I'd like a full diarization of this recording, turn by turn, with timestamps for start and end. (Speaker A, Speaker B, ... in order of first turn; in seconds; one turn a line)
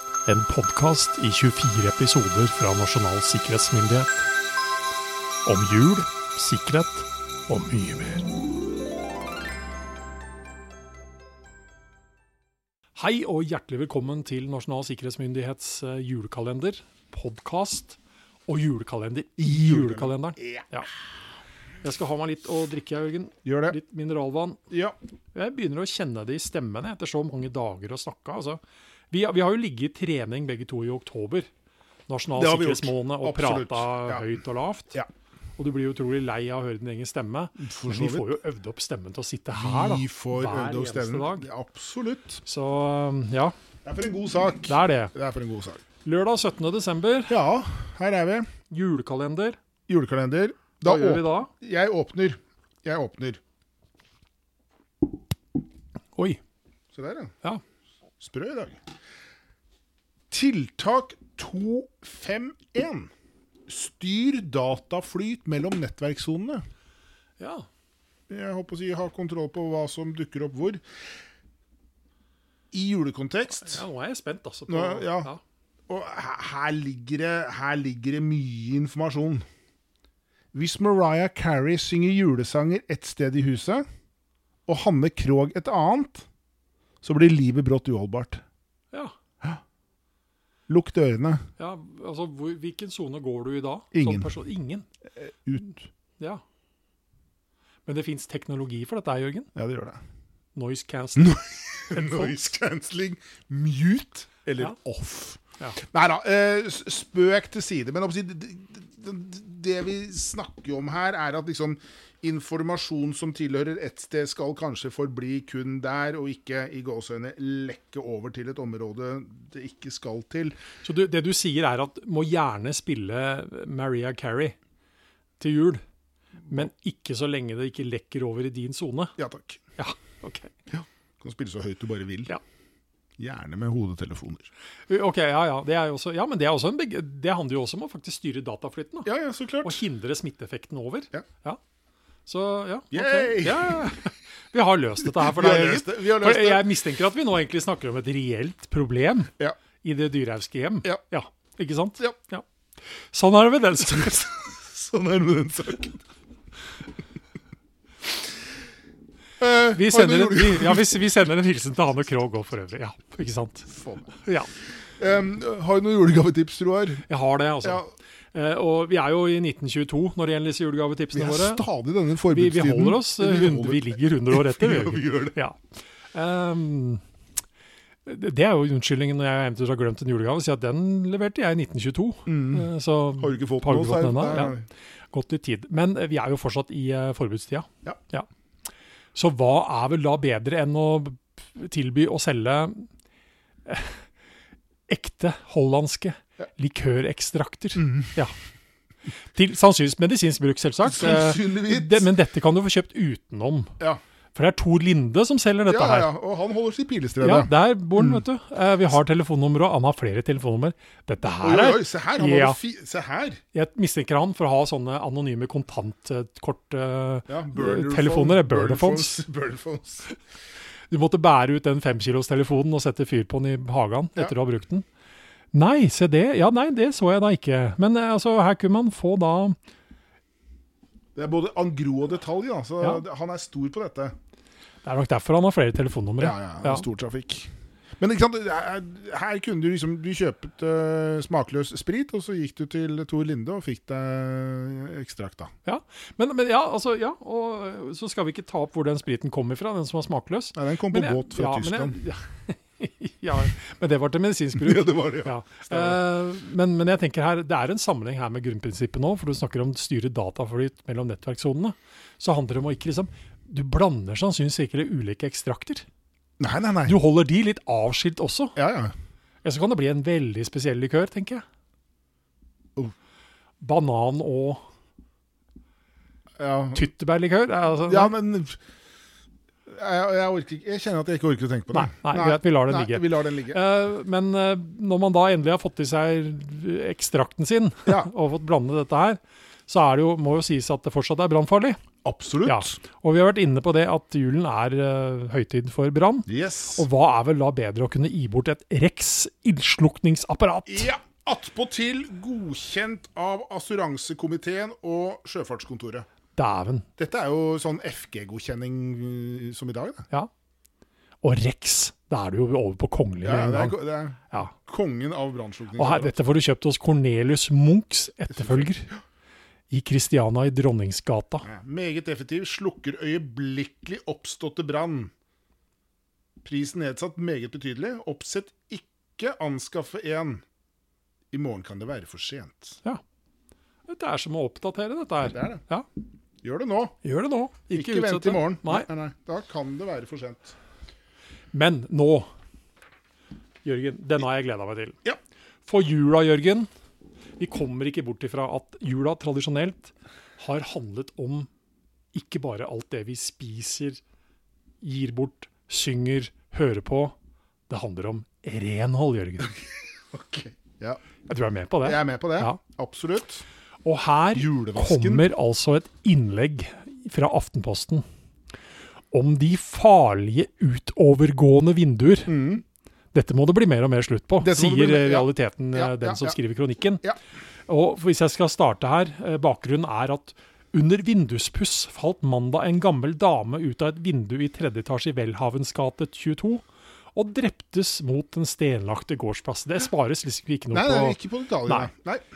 Speaker A: 0.3-4.3
Speaker A: 5.5-8.3
Speaker A: 13.0-20.9
Speaker B: 19.4-20.7
Speaker A: 21.8-24.6
Speaker B: 23.4-23.8
Speaker B: 24.7-25.0
Speaker A: 25.4-28.6
Speaker A: 29.1-31.5
Speaker A: 32.1-35.0
Speaker B: 32.4-34.4
Speaker A: 35.6-41.5
Speaker B: 37.6-38.4
Speaker B: 39.5-42.4
Speaker A: 42.4-43.5
Speaker B: 43.8-45.8
Speaker A: 44.7-45.1
Speaker A: 46.0-47.4
Speaker B: 47.3-48.5
Speaker A: 48.7-49.6
Speaker B: 49.9-53.4
Speaker A: 50.8-51.5
Speaker B: 56.9-57.3
Speaker B: 58.2-58.8
Speaker B: 60.3-63.1
Speaker B: 63.7-66.6
Speaker A: 67.4-67.7
Speaker B: 68.3-70.8
Speaker B: 72.7-73.8
Speaker A: 73.6-75.4
Speaker B: 74.7-75.3
Speaker B: 75.9-79.4
Speaker B: 80.5-83.8
Speaker B: 84.7-86.3
Speaker B: 87.0-88.4
Speaker B: 90.7-91.5
Speaker A: 91.6-94.9
Speaker B: 93.9-94.3
Speaker B: 95.2-95.9
Speaker A: 97.9-99.5
Speaker B: 99.5-100.0
Speaker A: 100.5-102.4
Speaker B: 101.2-120.6
Speaker A: 120.8-124.6
Speaker A: 125.4-125.8
Speaker A: 126.5-129.2
Speaker B: 129.2-129.6
Speaker A: 129.8-130.5
Speaker B: 130.7-132.3
Speaker B: 133.2-134.5
Speaker A: 134.9-139.1
Speaker B: 139.1-139.8
Speaker A: 139.6-141.6
Speaker A: 142.3-152.4
Speaker B: 142.9-143.9
Speaker B: 145.0-146.8
Speaker A: 153.1-154.4
Speaker B: 154.3-156.0
Speaker B: 159.4-160.9
Speaker A: 159.7-164.5
Speaker B: 163.7-164.1
Speaker B: 164.9-167.1
Speaker A: 167.1-171.6
Speaker B: 167.6-167.9
Speaker B: 171.1-175.4
Speaker A: 172.3-175.6
Speaker A: 176.1-177.0
Speaker A: 178.1-184.6
Speaker B: 182.3-184.7
Speaker A: 185.1-188.3
Speaker A: 189.2-192.9
Speaker A: 193.7-194.0
Speaker A: 194.9-198.3
Speaker B: 197.8-198.1
Speaker A: 199.3-203.7
Speaker B: 200.8-202.1
Speaker A: 204.3-206.1
Speaker B: 205.7-208.2
Speaker A: 207.2-212.6
Speaker B: 211.4-213.4
Speaker A: 213.5-219.2
Speaker B: 217.3-220.1
Speaker A: 220.9-224.9
Speaker A: 225.5-229.6
Speaker B: 231.2-234.2
Speaker A: 234.8-236.8
Speaker B: 236.2-245.5
Speaker A: 245.7-265.9
Speaker B: 250.6-252.0
Speaker B: 254.6-256.0
Speaker B: 266.4-267.0
Speaker A: 266.9-268.6
Speaker B: 268.6-268.9
Speaker A: 269.4-271.4
Speaker A: 273.6-274.6
Speaker B: 276.4-276.9
Speaker A: 276.8-278.1
Speaker B: 277.9-278.6
Speaker B: 279.7-283.6
Speaker A: 281.7-291.8
Speaker B: 292.0-292.8
Speaker A: 292.4-300.9
Speaker B: 296.3-296.9
Speaker B: 300.7-306.1
Speaker A: 306.4-306.9
Speaker B: 307.0-310.1
Speaker A: 311.2-313.8
Speaker B: 313.2-316.2
Speaker A: 315.8-318.9
Speaker B: 318.3-319.0
Speaker A: 319.7-321.5
Speaker B: 321.4-325.1
Speaker B: 326.4-330.4
Speaker B: 331.3-332.8
Speaker A: 333.9-335.9
Speaker B: 335.3-335.6
Speaker B: 336.4-337.0
Speaker A: 337.0-338.9
Speaker B: 337.7-340.6
Speaker A: 341.5-342.3
Speaker A: 343.6-345.0
Speaker A: 345.6-346.7
Speaker A: 347.4-351.5
Speaker A: 352.1-354.0
Speaker A: 354.8-357.1
Speaker A: 357.7-359.6
Speaker B: 360.1-361.0
Speaker A: 361.3-362.6
Speaker B: 361.8-363.4
Speaker A: 363.9-368.1
Speaker B: 364.3-365.3
Speaker A: 369.1-372.4
Speaker B: 372.3-372.6
Speaker A: 373.1-377.0
Speaker B: 374.4-376.4
Speaker A: 377.7-386.6
Speaker A: 387.1-391.9
Speaker B: 390.7-392.2